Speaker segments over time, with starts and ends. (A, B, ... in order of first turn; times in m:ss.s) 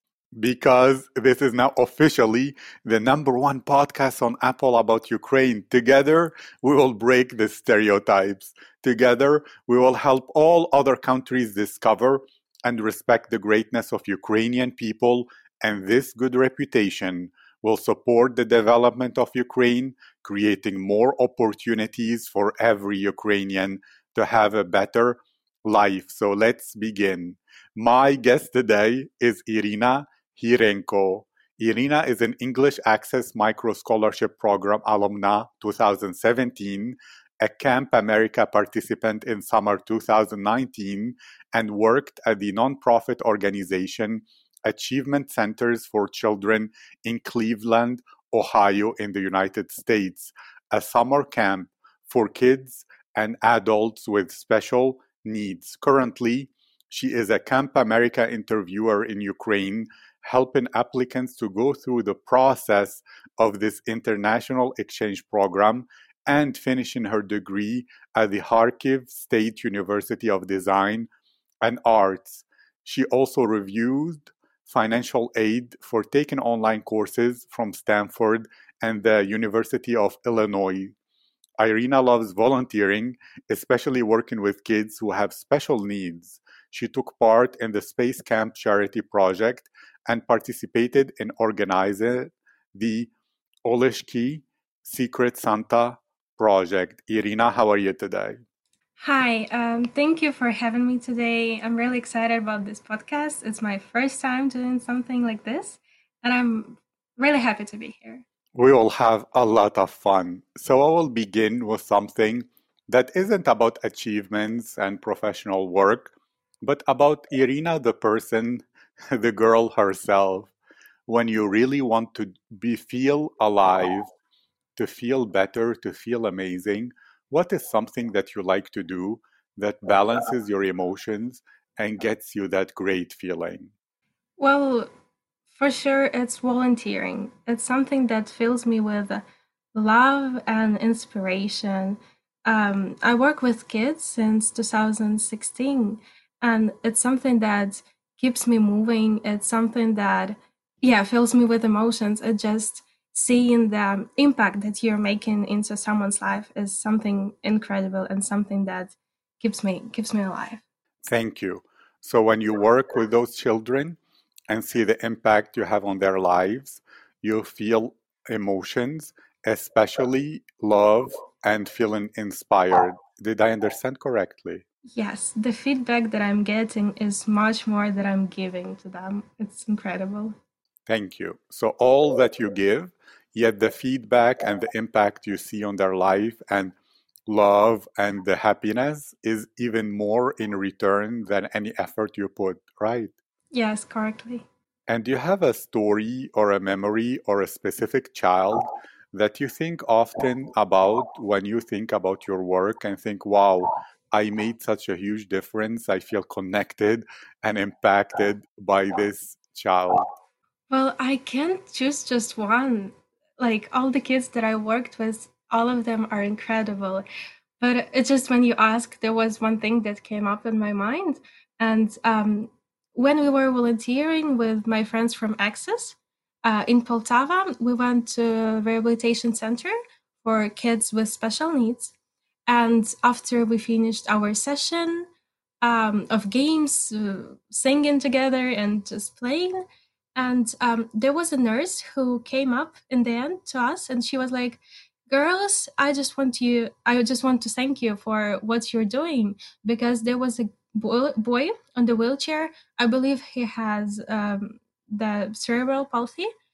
0:00.4-1:11.1 A
1:11.6-1:20.9 A
1:21.6-1:33.1 A
1:33.6-1:38.4 A
1:39.0-1:48.2 B
1:48.5-2:00.5 A
2:01.1-2:04.1 A
2:04.8-2:13.7 A
2:14.4-2:14.9 B
2:15.5-2:19.2 B
2:19.7-2:40.6 B
2:41.0-2:44.0 A
2:44.5-2:54.6 A
2:54.9-3:00.3 B
3:00.9-3:06.7 A
3:07.3-3:13.1 A
3:13.5-3:14.4 B
3:14.9-3:30.1 A
3:30.7-3:37.0 B
3:37.6-3:51.9 B
3:52.5-3:55.1 B
3:55.6-3:59.6 B
4:00.2-4:16.3 B